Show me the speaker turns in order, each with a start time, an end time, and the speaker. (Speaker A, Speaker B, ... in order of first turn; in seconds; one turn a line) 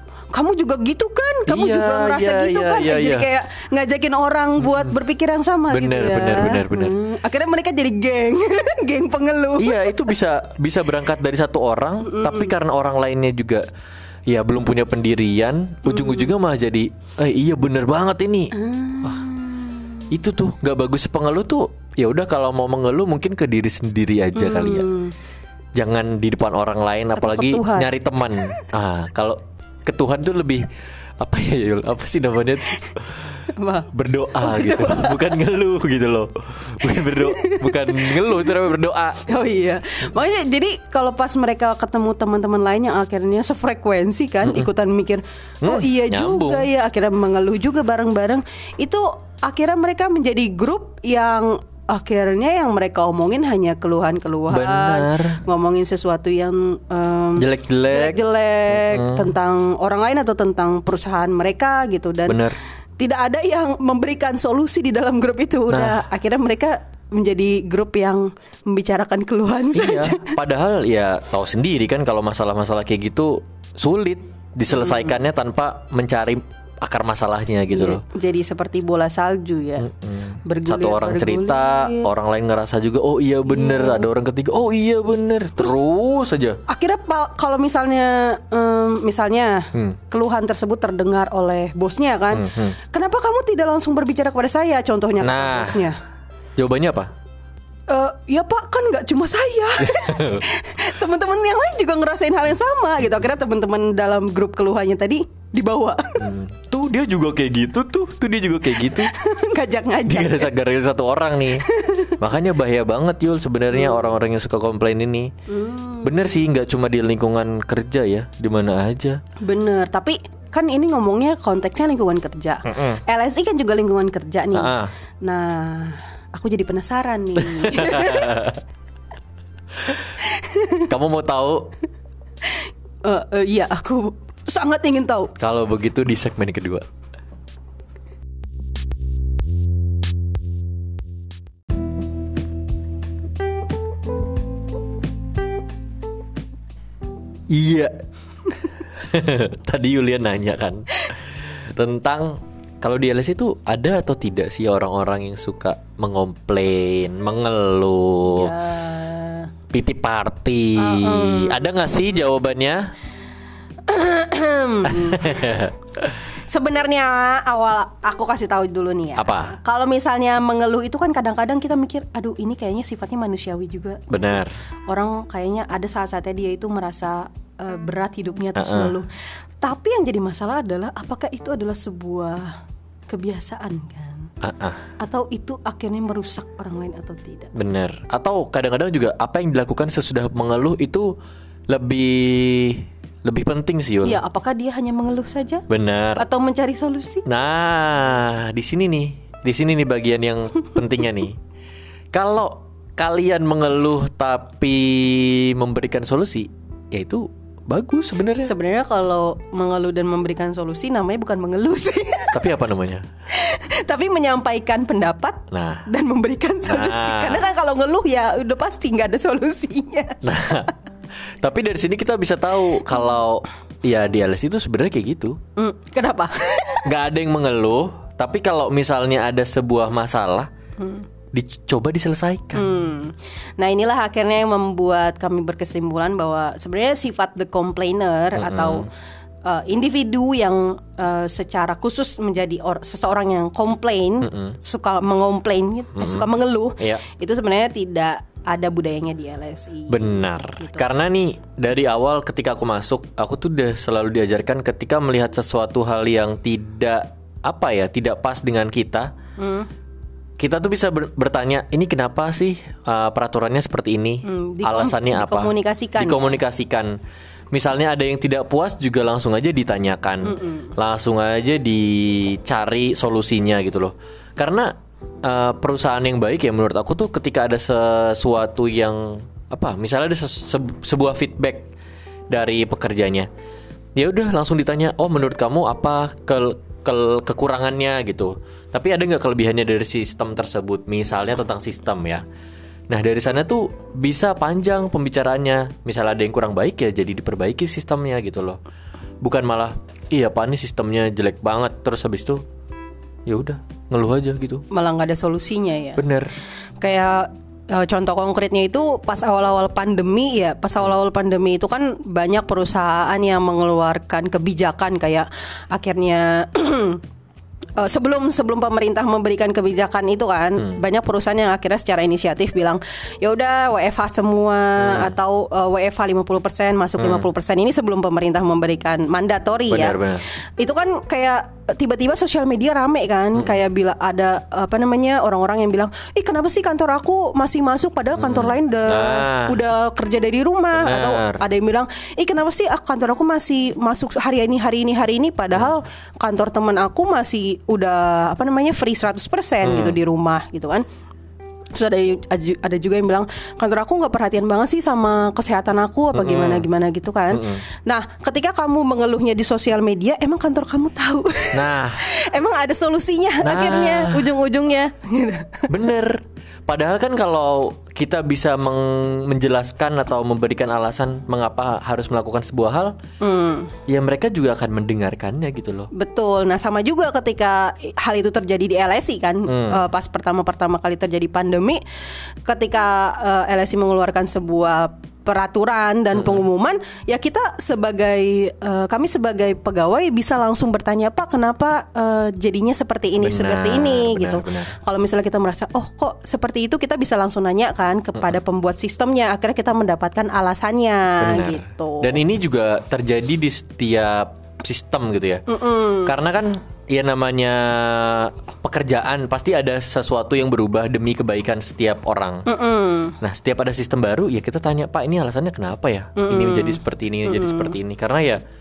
Speaker A: 0.3-10.0
Speaker B: 1.5-3.3
Speaker B: 5.7-7.0
Speaker B: 9.6-13.6
Speaker A: 12.0-12.5
Speaker B: 14.3-19.2
Speaker A: 15.8-16.3
Speaker A: 18.5-20.1
Speaker B: 20.1-24.9
Speaker A: 24.3-25.1
Speaker B: 25.7-30.7
Speaker A: 27.1-28.7
Speaker B: 31.2-39.2
Speaker A: 33.5-35.4
Speaker A: 36.9-38.6
Speaker A: 39.2-62.5
Speaker B: 44.4-44.7
Speaker B: 45.6-46.7
Speaker B: 54.5-55.4
Speaker B: 57.4-59.3
Speaker B: 62.3-62.6
Speaker A: 63.0-70.4
Speaker B: 65.7-66.0
Speaker B: 69.7-78.0
Speaker A: 74.7-75.2
Speaker A: 77.7-79.9
Speaker B: 79.8-86.6
Speaker A: 80.4-82.1
Speaker A: 83.5-84.1
Speaker A: 86.7-96.0
Speaker B: 92.3-92.8
Speaker B: 95.2-95.9
Speaker B: 96.6-97.1
Speaker A: 97.9-106.3
Speaker B: 99.8-100.4
Speaker B: 106.2-109.1
Speaker A: 108.8-110.5
Speaker B: 110.1-111.7
Speaker A: 111.6-112.1
Speaker B: 112.2-115.3
Speaker A: 113.7-114.1
Speaker A: 115.5-116.5
Speaker B: 116.0-119.2
Speaker A: 119.4-128.5
Speaker B: 122.7-123.0
Speaker B: 124.5-124.9
Speaker B: 127.4-128.6
Speaker A: 130.1-130.8
Speaker B: 130.9-131.7
Speaker A: 133.0-135.3
Speaker B: 135.4-136.8
Speaker B: 147.5-147.9
Speaker B: 148.9-158.5
Speaker A: 158.3-159.5
Speaker B: 159.7-162.9
Speaker A: 160.8-161.7
Speaker A: 163.9-165.6
Speaker B: 164.8-166.0
Speaker A: 166.4-179.1
Speaker B: 169.2-169.6
Speaker B: 174.1-174.5
Speaker B: 178.5-178.9
Speaker A: 179.6-182.5
Speaker A: 183.1-184.3
Speaker B: 184.4-184.8
Speaker A: 185.0-187.5
Speaker B: 187.5-191.1
Speaker B: 191.7-194.2
Speaker A: 194.0-195.6
Speaker B: 195.7-196.2
Speaker A: 196.2-197.2
Speaker B: 197.2-201.4
Speaker B: 202.1-208.5
Speaker A: 208.3-212.5
Speaker B: 212.3-213.0
Speaker A: 213.3-220.5
Speaker B: 215.5-215.9
Speaker B: 216.7-217.4
Speaker B: 220.2-220.7
Speaker B: 221.4-225.4
Speaker A: 225.6-226.9
Speaker B: 226.8-230.5
Speaker A: 230.8-231.1
Speaker B: 231.3-232.7
Speaker A: 232.5-238.9
Speaker B: 238.3-238.9
Speaker A: 239.4-250.8
Speaker B: 244.2-244.6
Speaker B: 245.9-247.0
Speaker B: 249.9-259.1
Speaker A: 259.4-259.7
Speaker B: 260.4-266.9
Speaker A: 264.2-266.3
Speaker B: 267.5-281.7
Speaker A: 270.3-270.7
Speaker B: 282.3-283.3
Speaker B: 283.9-292.2
Speaker B: 292.9-298.6
Speaker B: 299.2-302.4
Speaker B: 303.3-304.6
Speaker A: 304.7-306.0
Speaker B: 306.0-306.3
Speaker A: 306.8-317.0
Speaker A: 317.8-350.8
Speaker B: 324.8-325.1
Speaker B: 327.0-327.3
Speaker B: 329.7-330.2
Speaker B: 338.2-339.6
Speaker B: 340.7-341.4
Speaker B: 349.6-350.0
Speaker A: 351.7-365.7
Speaker B: 356.1-356.7
Speaker B: 357.3-357.6
Speaker B: 361.5-362.0
Speaker B: 363.4-364.3
Speaker B: 365.7-372.9
Speaker A: 373.2-373.8
Speaker B: 373.9-375.9
Speaker A: 375.9-381.8
Speaker B: 379.5-379.8
Speaker A: 382.4-402.2
Speaker B: 386.1-386.4
Speaker B: 393.2-394.7
Speaker B: 401.2-405.4
Speaker A: 405.5-406.2
Speaker B: 406.0-412.4
Speaker A: 412.4-413.2
Speaker B: 413.2-418.4
Speaker A: 416.1-417.8